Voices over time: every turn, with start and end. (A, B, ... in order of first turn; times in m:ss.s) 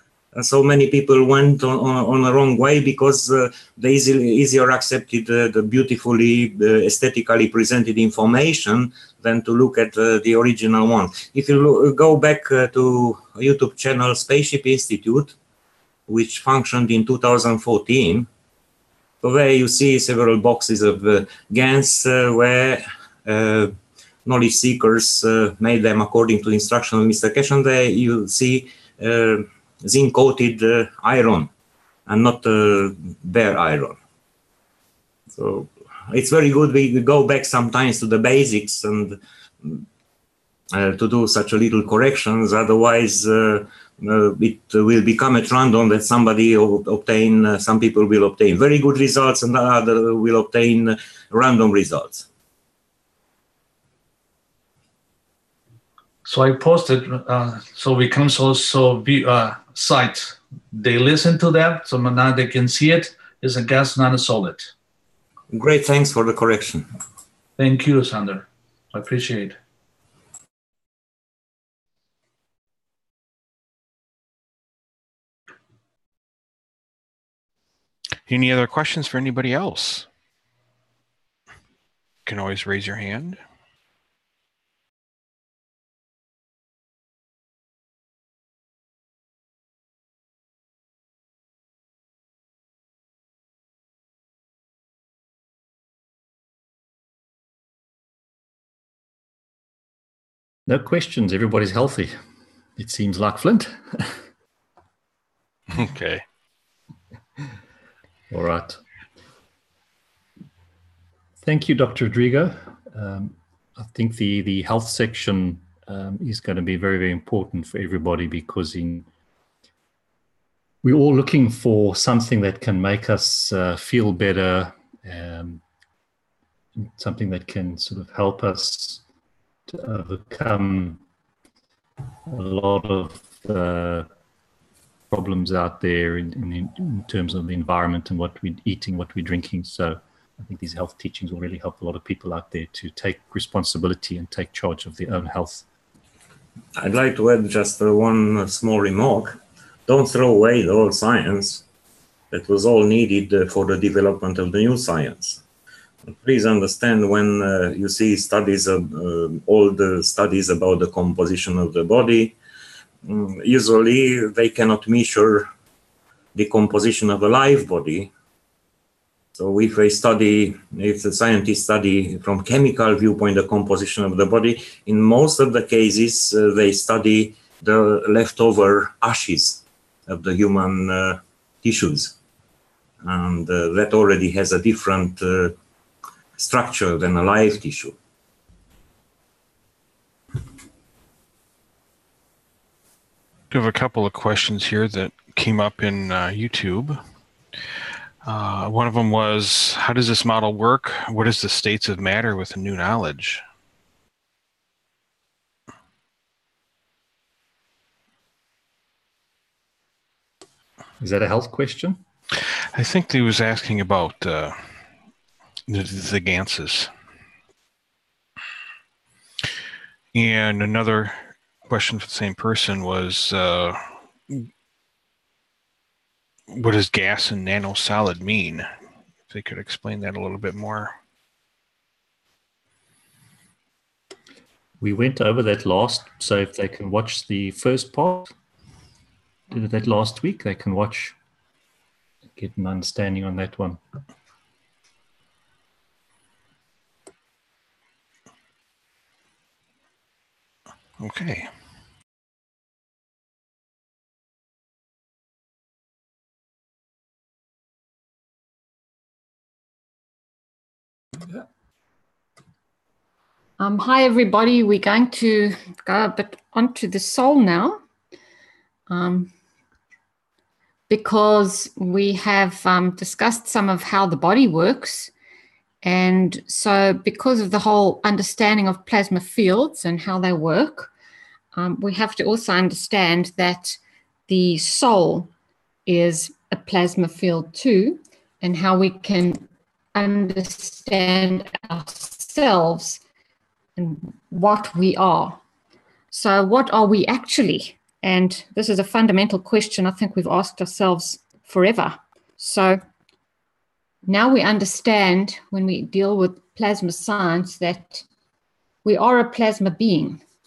0:00.3-0:15.4 A
0:16.1-0:18.3 A
0:19.2-0:31.5 A
0:32.1-0:34.0 A
0:35.3-0:39.8 A
0:40.7-0:52.3 A
0:56.2-1:04.7 B
1:05.5-1:06.9 A
1:07.6-1:09.6 B
1:18.3-1:20.1 C
1:22.2-1:23.4 C
1:40.7-1:42.1 D
1:42.8-1:44.2 D
1:45.7-1:46.2 C
1:48.3-1:48.8 D
1:51.4-1:59.1 D
2:00.8-2:05.6 D
2:06.8-2:09.0 D
2:09.7-2:11.0 D
2:12.3-2:14.1 D
2:15.1-2:25.6 D
2:26.8-2:31.6 A
2:32.3-2:35.4 A
2:36.1-2:42.4 A
2:43.0-2:45.5 A
2:46.3-2:48.1 A
2:49.3-3:02.2 A
3:03.0-3:05.6 A
3:06.4-3:08.0 A
3:13.5-3:17.0 C
3:18.2-3:23.4 C
3:31.0-3:32.0 D
3:32.7-3:34.6 C
3:35.7-3:36.9 C
3:40.1-3:44.5 C
3:46.5-3:48.7 C
3:49.3-3:51.0 C
3:54.8-3:58.3 D
3:59.5-4:01.2 D
4:02.4-4:03.8 D
4:11.0-4:11.5 C
4:23.6-4:27.8 E
4:28.9-4:29.3 E
4:30.9-4:35.1 E
4:35.8-4:40.9 E
4:41.5-4:45.3 E
4:45.9-4:53.0 E
4:53.8-4:55.4 E
4:56.1-5:02.8 E
5:04.1-5:08.0 E
5:08.8-5:10.2 E